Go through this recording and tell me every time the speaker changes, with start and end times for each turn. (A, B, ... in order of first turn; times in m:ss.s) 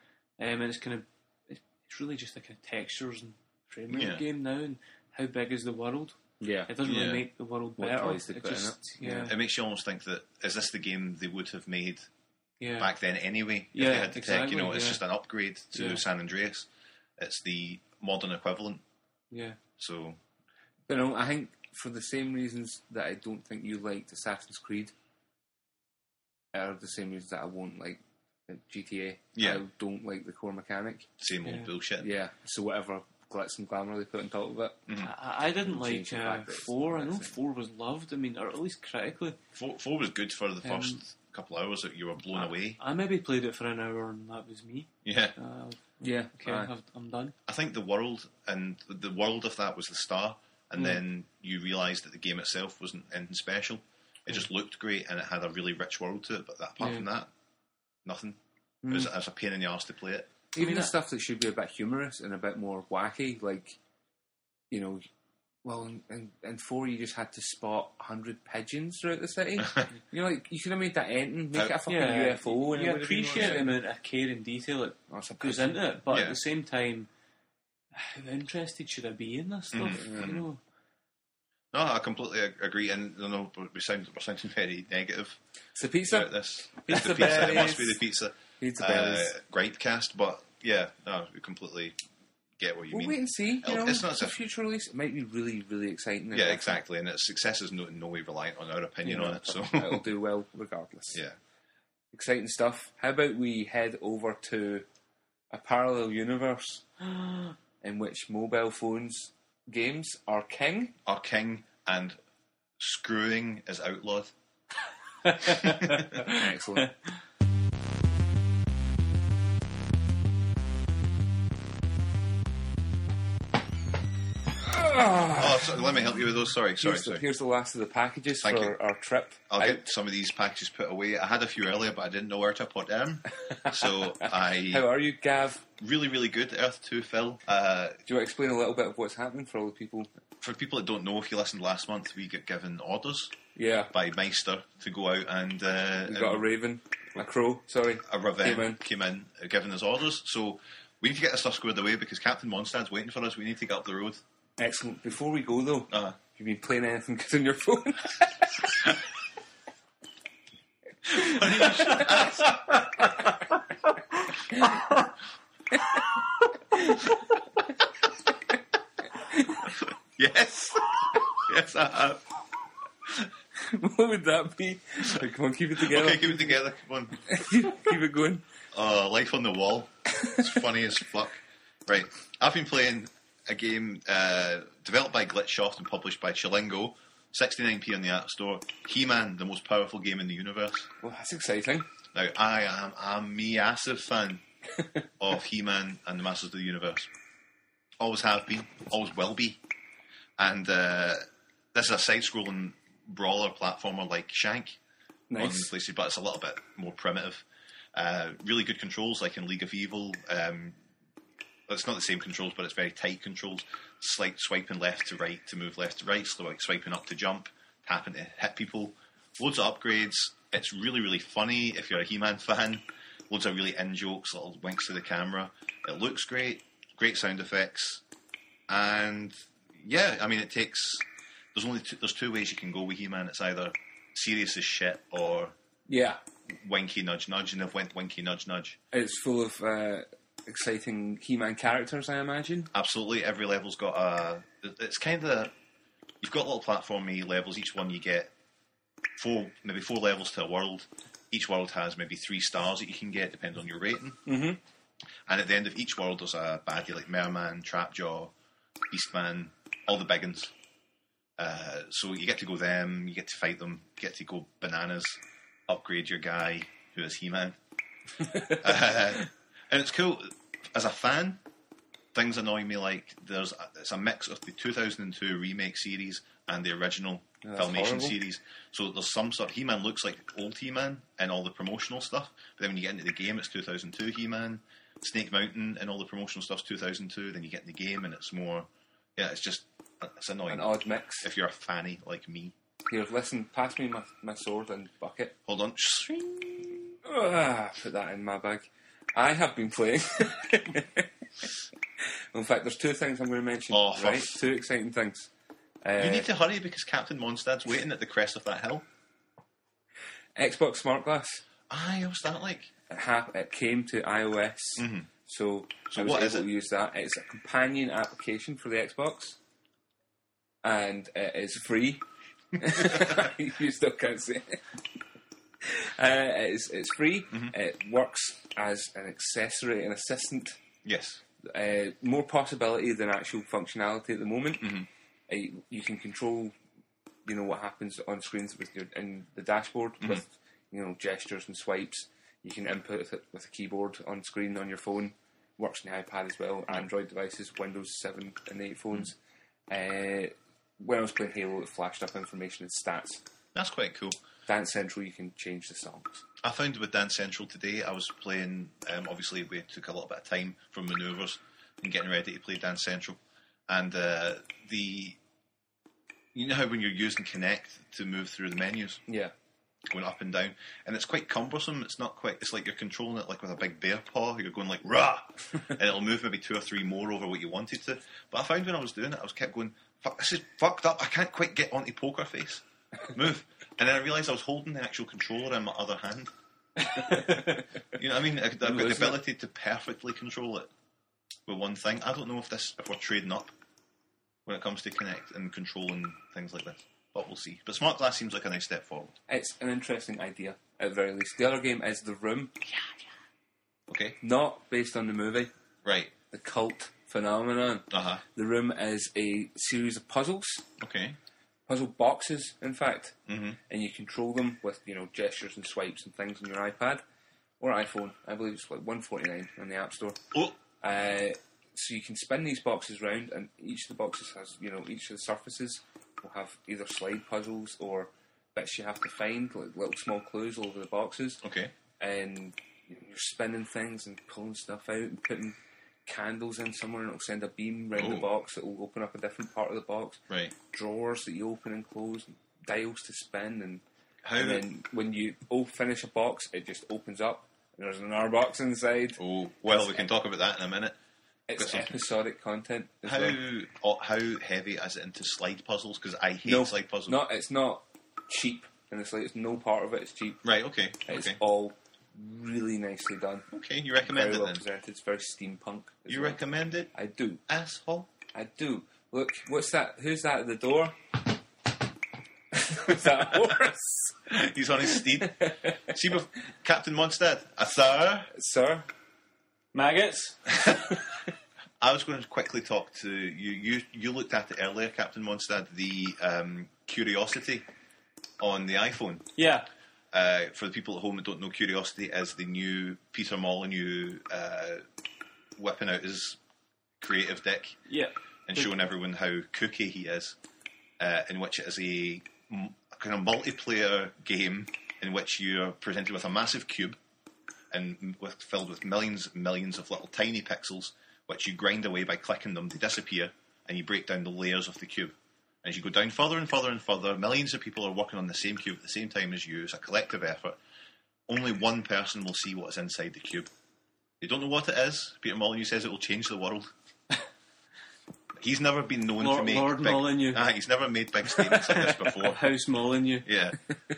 0:00.4-0:09.4 A
0:03.9-0:04.2 B
0:06.4-0:06.7 C
0:06.8-0:07.3 B
0:07.8-0:09.3 C
0:09.2-0:12.1 B
0:12.6-0:12.9 A
0:12.8-0:16.7 B
0:13.7-0:15.0 A
0:15.7-0:16.0 A
0:17.2-0:18.8 B
0:19.3-0:19.6 A
0:19.8-0:20.2 B
0:20.9-0:24.9 C
0:26.5-0:31.1 C
0:29.4-0:29.6 B
0:31.2-0:32.1 B
0:31.4-0:31.7 A
0:32.0-0:37.4 C
0:34.9-0:35.1 B
0:35.0-0:39.4 A
0:39.5-0:42.8 B
0:40.6-0:41.0 A
0:42.4-0:47.4 A
0:45.0-0:45.4 B
0:46.0-0:46.7 C
0:47.5-0:57.3 B
0:56.8-0:57.1 A
0:58.0-1:00.4 B
0:58.8-0:59.1 C
1:00.5-1:03.8 C
1:00.6-1:00.9 A
1:04.7-1:05.0 C
1:05.6-1:13.8 C
1:09.6-1:09.9 B
1:11.9-1:17.1 A
1:13.4-1:13.6 B
1:15.1-1:15.8 C
1:16.1-1:16.4 B
1:17.9-1:20.6 A
1:19.7-1:20.5 B
1:20.0-1:20.4 C
1:21.7-1:25.4 B
1:25.8-1:29.4 C
1:26.1-1:32.0 B
1:32.6-1:34.4 B
1:32.9-1:36.8 C
1:36.3-1:40.1 B
1:39.0-1:41.2 C
1:42.1-1:44.9 C
1:45.5-1:51.0 C
1:51.1-1:52.2 B
1:52.8-1:54.3 B
1:55.2-1:57.1 A
1:55.4-1:56.2 B
1:56.2-1:56.9 C
2:04.6-2:05.8 C
2:05.4-2:07.2 B
2:06.8-2:09.8 C
2:08.4-2:08.8 B
2:09.5-2:14.9 B
2:13.4-2:15.6 C
2:15.8-2:18.0 B
2:18.1-2:20.1 C
2:20.4-2:23.4 B
2:23.6-2:23.9 C
2:23.9-2:26.5 B
2:26.1-2:28.8 C
2:28.0-2:34.2 B
2:34.6-2:39.0 C
2:35.9-2:36.2 B
2:41.1-2:43.0 B
2:41.1-2:42.4 C
2:46.8-2:47.0 C
2:49.4-2:49.7 C
2:49.7-2:52.2 B
2:53.6-2:56.6 C
2:55.8-2:57.9 B
2:57.3-2:58.4 C
2:58.7-3:10.9 B
3:11.0-3:11.9 C
3:12.1-3:14.4 B
3:15.2-3:17.1 B
3:18.0-3:19.6 B
3:20.4-3:24.8 B
3:25.3-3:25.7 C
3:25.4-3:30.8 B
3:31.7-3:48.0 B
3:48.7-3:55.6 B
3:55.9-3:56.2 C
3:56.5-3:58.8 B
3:58.9-4:02.7 C
4:02.7-4:05.5 B
4:06.2-4:08.3 B
4:09.2-4:14.2 B
4:14.3-4:14.6 C
4:15.3-4:18.3 B
4:18.9-4:20.5 B
4:21.4-4:27.6 B
4:28.3-4:31.4 B
4:32.1-4:50.7 B
4:37.4-4:38.2 C
4:50.5-4:51.3 C
4:51.2-4:52.5 B
4:52.9-4:55.4 C
4:55.5-4:57.0 B
4:57.0-5:01.1 C
5:02.3-5:05.3 C
5:03.7-5:04.4 B
5:05.8-5:06.3 C
5:06.0-5:08.9 B
5:10.4-5:11.4 C
5:11.7-5:12.7 B
5:12.9-5:19.4 C
5:14.8-5:15.1 B
5:15.9-5:16.5 B
5:20.6-5:24.8 C
5:25.6-5:30.6 C
5:30.8-5:31.2 B
5:31.4-5:36.6 C
5:34.6-5:34.9 B
5:37.2-5:49.2 C
5:49.7-5:53.2 C
5:53.6-5:54.2 B
5:54.5-5:56.2 C
5:56.4-6:05.2 B
6:06.3-6:09.0 B
6:09.1-6:09.3 C
6:09.9-6:26.3 B
6:26.9-6:27.6 A
6:27.9-6:30.7 B
6:28.6-6:29.2 C
6:31.5-6:33.5 B
6:34.5-6:39.2 B
6:39.3-6:42.6 C
6:42.6-6:43.0 B
6:43.9-6:44.2 B
6:44.2-6:45.5 C
6:45.8-6:46.2 B
6:46.3-6:50.7 C
6:47.9-6:48.2 B
6:50.8-6:51.2 B
6:51.7-6:53.2 C
6:53.3-6:53.6 B
6:53.7-6:57.0 C
6:57.6-7:11.4 C
7:11.4-7:11.7 B
7:12.0-7:23.8 C
7:18.0-7:18.3 B
7:20.3-7:20.6 B
7:24.2-7:24.7 B
7:24.4-7:29.2 C
7:29.2-7:31.0 B
7:31.5-7:33.4 C
7:31.6-7:31.9 B
7:33.1-7:37.2 B
7:36.4-7:40.5 C
7:40.4-7:41.4 B
7:41.1-7:43.5 C
7:43.5-7:44.6 B
7:44.0-7:46.4 C
7:46.1-7:46.9 B
7:46.9-7:47.4 C
7:47.5-7:48.1 B
7:48.3-7:51.2 C
7:52.5-7:54.2 C
7:54.3-7:58.3 B
7:55.2-7:55.7 C
7:58.3-7:58.9 C
7:59.7-8:00.5 A
8:01.8-8:07.7 B
8:08.4-8:09.3 B
8:09.4-8:09.7 A
8:10.1-8:14.8 B
8:15.6-8:16.4 B
8:17.0-8:17.8 B
8:17.9-8:18.7 A
8:18.5-8:20.4 B
8:21.0-8:27.0 B
8:27.7-8:40.6 B
8:41.3-8:43.5 B
8:44.2-8:46.7 B
8:48.4-8:52.4 B
8:49.2-8:50.4 A
8:51.5-8:53.3 A
8:53.2-8:53.6 B